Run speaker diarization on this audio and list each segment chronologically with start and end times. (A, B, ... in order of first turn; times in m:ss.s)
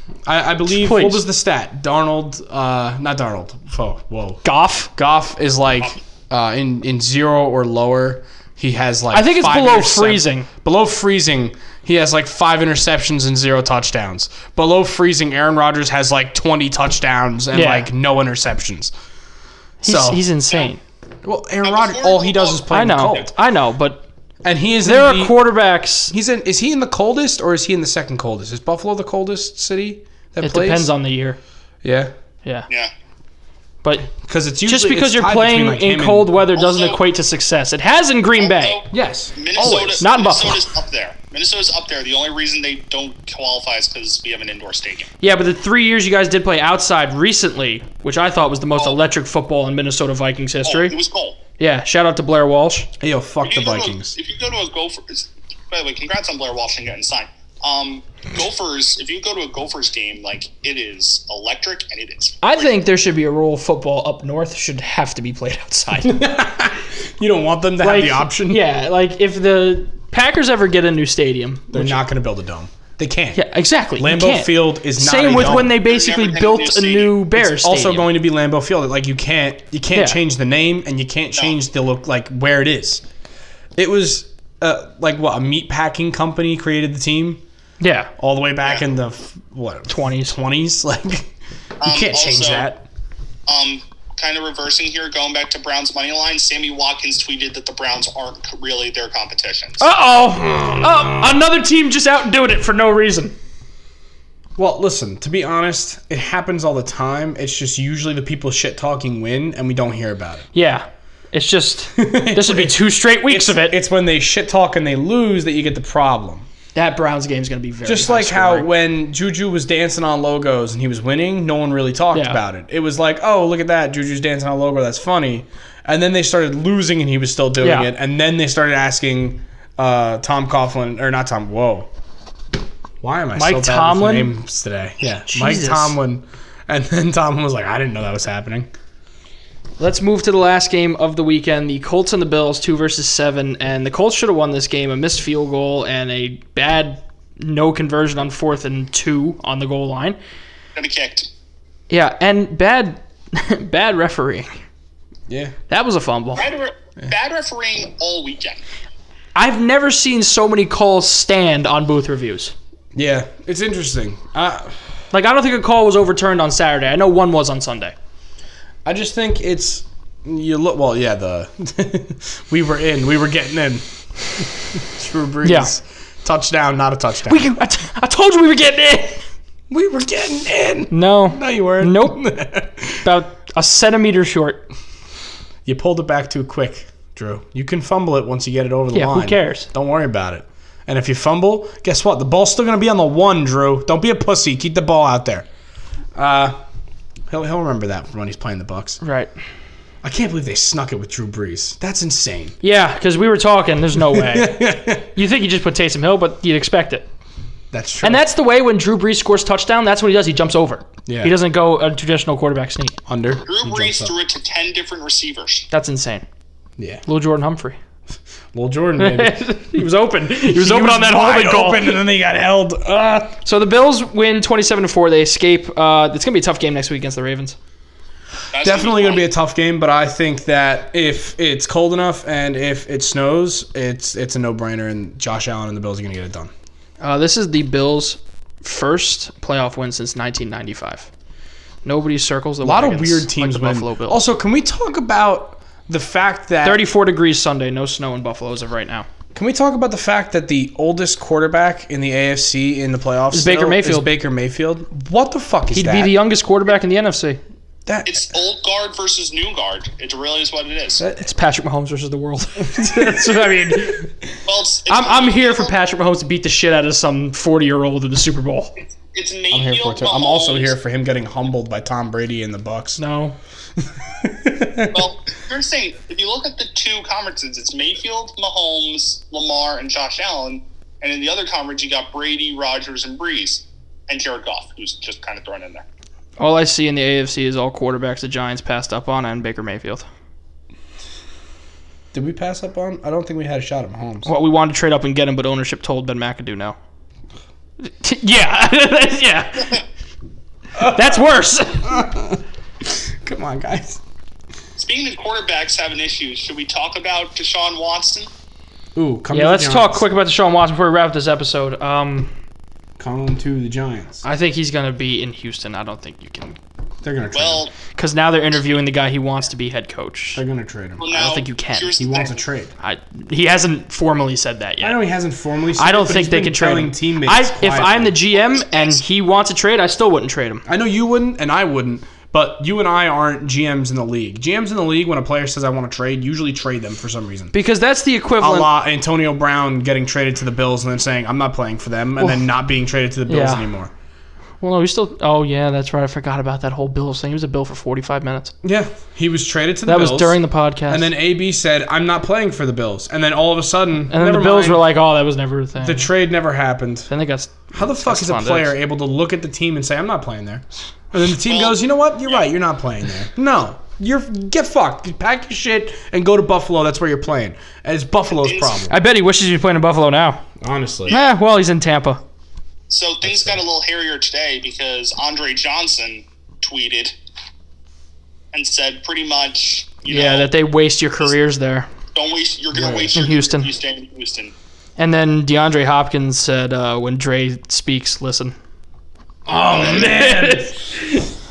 0:00.2-0:18.9 A
0:00.7-0:01.2 B
0:04.4-0:04.9 B
0:09.1-0:10.5 B
0:17.5-0:17.9 B
0:19.8-0:20.2 A
0:19.8-0:20.8 B
0:21.2-0:23.3 A
0:21.6-0:22.6 C
0:22.7-0:24.0 B
0:24.4-0:25.4 A
0:24.8-0:26.1 B
0:26.1-0:30.9 A
0:30.4-0:31.4 B
0:31.8-0:32.1 A
0:33.8-0:34.1 B
0:34.2-0:36.4 A
0:34.6-0:38.8 B
0:36.5-0:37.0 C
0:38.4-0:45.1 C
0:38.9-0:40.1 A
0:39.6-0:40.7 B
0:45.2-0:51.0 B
0:48.8-0:49.0 C
0:50.6-0:51.4 C
0:51.6-0:52.9 B
0:53.0-0:54.1 A
0:53.4-1:02.7 C
1:02.4-1:06.2 B
1:06.0-1:08.6 A
1:07.8-1:12.0 B
1:11.7-1:13.4 A
1:13.3-1:18.1 B
1:14.0-1:15.8 A
1:15.3-1:17.2 C
1:17.3-1:23.0 A
1:19.9-1:20.2 B
1:23.8-1:27.4 A
1:27.8-1:28.1 B
1:28.2-1:31.3 A
1:29.9-1:30.4 B
1:31.8-1:32.7 C
1:31.8-1:32.8 A
1:33.5-1:39.8 C
1:39.8-1:43.3 B
1:44.6-1:50.5 A
1:50.5-1:53.8 B
1:52.0-1:56.5 A
1:56.7-1:58.7 B
1:57.8-2:11.9 A
2:02.1-2:02.4 B
2:07.6-2:07.9 B
2:13.0-2:18.7 A
2:13.4-2:14.3 B
2:15.3-2:16.0 B
2:19.8-2:30.2 B
2:30.8-2:31.3 C
2:31.9-2:34.5 B
2:35.3-2:35.5 A
2:35.7-2:36.5 B
2:36.4-2:38.6 C
2:39.3-2:42.5 B
2:42.9-2:44.7 A
2:45.1-2:47.9 B
2:48.8-2:57.5 A
2:55.4-2:55.7 B
2:57.3-2:59.2 B
2:59.7-3:03.0 A
3:00.9-3:02.2 B
3:03.0-3:04.7 B
3:05.6-3:15.5 A
3:08.9-3:09.7 B
3:16.1-3:16.6 A
3:17.3-3:19.0 A
3:19.0-3:19.3 B
3:20.0-3:22.6 A
3:22.6-3:27.0 B
3:24.0-3:25.1 A
3:27.7-3:28.2 A
3:28.0-3:33.0 B
3:31.0-3:31.3 A
3:33.1-3:34.1 A
3:33.4-3:35.7 C
3:35.7-3:36.2 B
3:36.8-3:37.0 A
3:37.0-3:37.8 B
3:38.5-3:39.6 A
3:39.0-3:42.0 B
3:40.3-3:43.4 A
3:43.4-3:47.6 B
3:48.5-3:49.2 C
3:48.6-3:56.5 A
3:57.0-4:01.1 B
4:01.8-4:04.2 B
4:02.6-4:06.8 A
4:06.6-4:09.1 B
4:09.3-4:16.2 A
4:13.3-4:14.1 B
4:15.7-4:17.4 B
4:17.8-4:18.2 A
4:18.0-4:21.0 C
4:21.1-4:24.1 B
4:22.7-4:23.4 A
4:24.4-4:25.7 C
4:24.9-4:28.7 B
4:29.0-4:30.8 C
4:29.5-4:33.0 A
4:33.0-4:33.4 B
4:34.2-4:35.0 A
4:34.8-4:45.8 C
4:46.4-4:50.0 B
4:52.1-4:54.3 A
4:54.2-4:56.8 B
4:57.8-4:59.8 B
5:00.7-5:01.3 A
5:00.8-5:02.0 B
5:01.8-5:04.0 A
5:04.8-5:08.3 C
5:08.9-5:10.0 A
5:09.3-5:12.3 B
5:13.0-5:14.2 A
5:14.2-5:16.6 B
5:17.0-5:17.6 A
5:17.3-5:17.7 C
5:17.9-5:20.4 B
5:20.3-5:21.1 A
5:21.0-5:22.4 C
5:21.1-5:22.0 B
5:22.0-5:22.7 A
5:22.8-5:25.0 B
5:24.8-5:28.1 A
5:25.8-5:30.6 B
5:28.3-5:29.0 C
5:30.6-5:37.5 A
5:37.5-5:38.7 B
5:38.4-5:43.9 A
5:43.3-5:43.7 B
5:44.6-5:48.5 B
5:48.6-5:54.8 A
5:49.8-5:51.1 B
5:54.1-5:56.1 B
5:55.8-5:57.1 A
5:57.1-5:58.7 B
5:57.7-6:09.0 A
6:01.4-6:02.5 C
6:08.4-6:08.7 C
6:08.9-6:10.4 B
6:10.6-6:11.2 A
6:11.1-6:11.4 C
6:11.1-6:12.2 B
6:12.9-6:17.1 C
6:13.2-6:13.6 A
6:18.5-6:20.5 C
6:20.1-6:21.9 B
6:22.1-6:24.5 C
6:22.7-6:23.2 A
6:23.1-6:23.7 B
6:25.0-6:28.6 B
6:29.4-6:31.0 A
6:29.7-6:31.2 B